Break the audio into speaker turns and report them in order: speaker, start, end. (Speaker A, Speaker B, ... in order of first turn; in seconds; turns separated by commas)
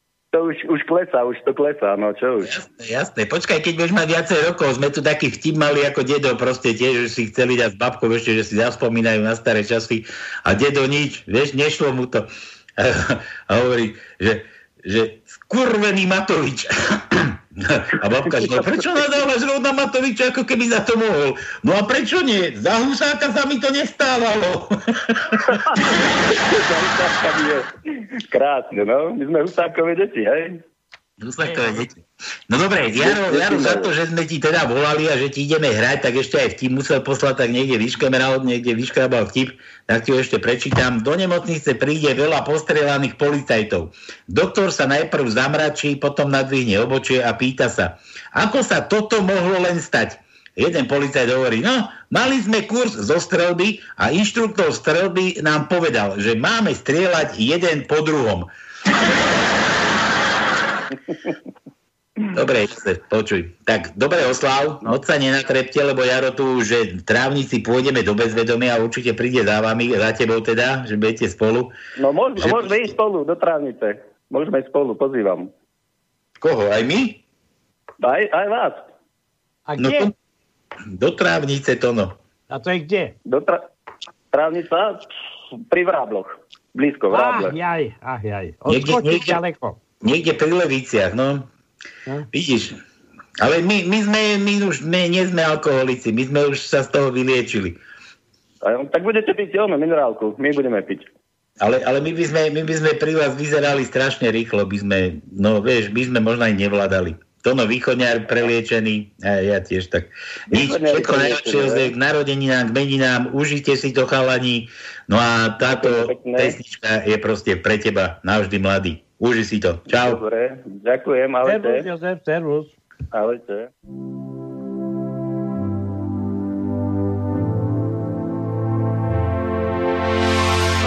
Speaker A: 0.3-2.5, Speaker B: 2.5-25.6, Speaker A: 18.3-19.0, Speaker A: 25.7-27.7, Speaker A: 28.3-30.6, Speaker B: 31.2-58.5, Speaker A: 32.9-33.9, Speaker B: 62.3-71.7, Speaker A: 72.0-75.5, Speaker B: 72.4-72.8, Speaker B: 76.4-77.2, Speaker A: 78.0-78.8, Speaker C: 79.7-80.1, Speaker B: 79.8-80.1, Speaker B: 80.9-82.1, Speaker C: 82.5-83.2, Speaker A: 83.3-83.7, Speaker A: 84.3-85.1, Speaker A: 85.7-87.5, Speaker C: 87.1-89.8, Speaker B: 88.7-89.4, Speaker B: 90.0-91.5, Speaker B: 92.3-92.8, Speaker B: 93.4-97.8, Speaker A: 98.6-101.1, Speaker B: 101.6-120.2, Speaker A: 110.5-111.9, Speaker A: 115.6-116.6, Speaker A: 119.9-121.9, Speaker C: 121.4-122.8, Speaker A: 123.1-123.7